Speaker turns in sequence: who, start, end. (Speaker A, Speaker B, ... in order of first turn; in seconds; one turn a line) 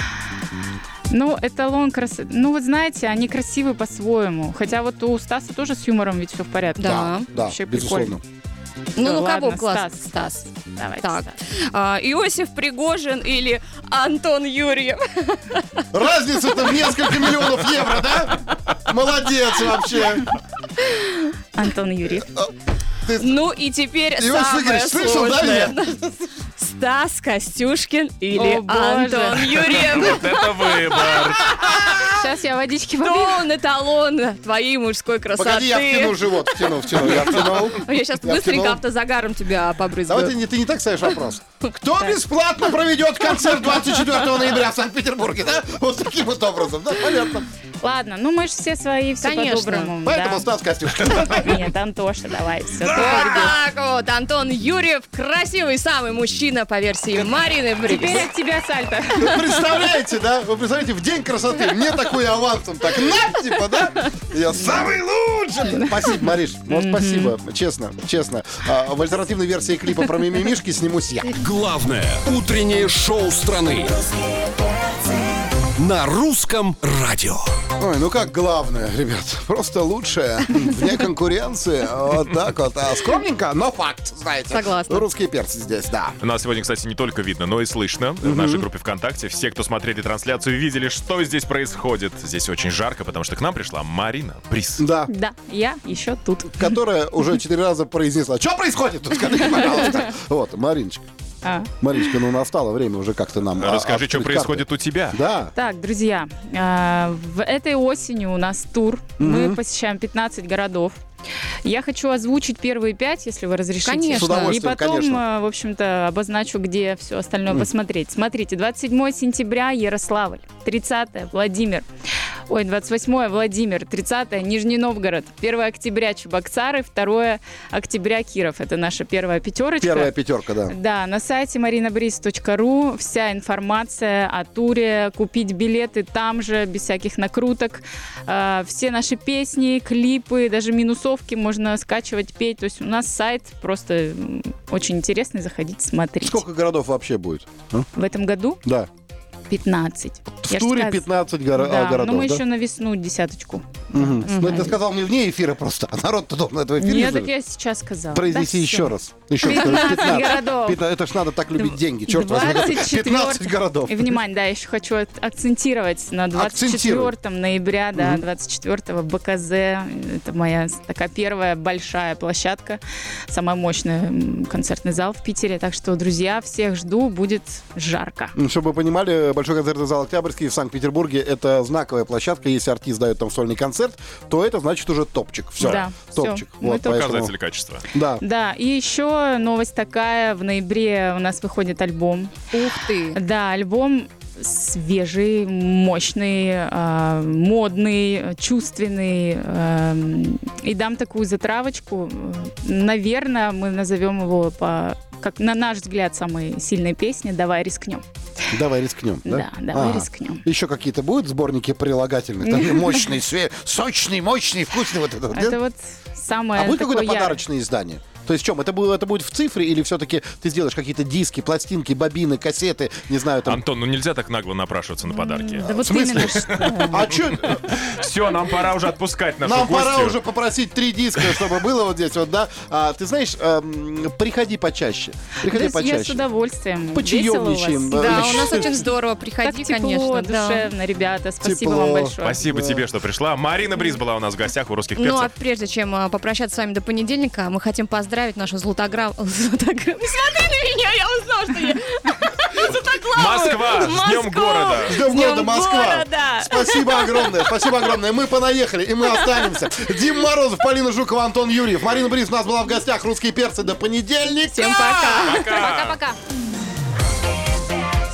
Speaker A: 1.1-8.2
Speaker B: 6.8-7.3
Speaker C: 6.8-8.2
Speaker B: 8.9-10.5
Speaker A: 9.0-10.1
Speaker A: 10.7-11.3
Speaker B: 11.0-15.8
Speaker C: 15.9-20.3
Speaker B: 20.8-21.3
Speaker A: 21.5-22.3
Speaker C: 22.2-23.4
Speaker B: 23.2-32.0
Speaker C: 24.1-25.8
Speaker A: 28.3-29.8
Speaker D: 29.7-31.6
Speaker C: 31.6-32.0
Speaker A: 31.9-33.5
Speaker B: 33.0-40.3
Speaker C: 35.3-38.8
Speaker C: 40.1-47.5
Speaker A: 47.8-50.5
Speaker B: 49.2-49.9
Speaker C: 50.0-51.6
Speaker A: 51.0-53.6
Speaker B: 52.8-58.3
Speaker A: 57.8-59.6
Speaker C: 59.2-71.3
Speaker A: 65.6-67.3
Speaker E: 71.3-74.0
Speaker E: 75.8-77.5
Speaker C: 77.8-86.2
Speaker B: 84.5-85.0
Speaker D: 86.2-94.8
Speaker C: 88.2-88.7
Speaker C: 94.8-95.1
Speaker A: 95.1-96.8
Speaker C: 96.5-101.0
Speaker A: 101.4-101.7
Speaker C: 101.8-105.5
Speaker D: 103.6-105.2
Speaker A: 105.5-111.0
Speaker C: 109.2-109.6
Speaker A: 111.6-121.8
Speaker B: 113.8-114.5
Speaker C: 114.1-115.2
Speaker A: 122.5-130.1
Speaker C: 129.8-130.7
Speaker A: 130.7-146.4
Speaker C: 146.2-147.9
Speaker A: 147.9-148.6
Speaker C: 148.6-148.9
Speaker A: 149.5-154.7
Speaker C: 150.4-152.4
Speaker C: 153.9-157.3
Speaker B: 154.3-154.6
Speaker A: 156.8-160.8
Speaker C: 158.1-164.2
Speaker A: 161.6-178.3
Speaker C: 166.3-167.1
Speaker C: 167.9-168.2
Speaker C: 178.3-187.3
Speaker A: 185.6-187.2
Speaker D: 186.8-187.8
Speaker C: 187.9-188.2
Speaker A: 188.2-192.5
Speaker B: 192.5-193.2
Speaker A: 193.1-208.0
Speaker C: 208.5-215.6
Speaker A: 209.2-210.4
Speaker A: 212.4-213.1
Speaker A: 215.3-217.4
Speaker C: 216.6-223.6
Speaker D: 223.4-230.2
Speaker A: 225.1-227.1
Speaker C: 225.8-227.8
Speaker C: 229.4-236.2
Speaker A: 235.4-238.7
Speaker C: 236.9-238.8
Speaker B: 237.9-240.7
Speaker A: 239.4-242.4
Speaker C: 241.4-242.8
Speaker D: 242.2-245.3
Speaker B: 244.9-257.8
Speaker D: 252.7-255.0
Speaker C: 254.8-264.8
Speaker A: 264.5-266.2
Speaker B: 264.5-265.6
Speaker D: 265.2-266.0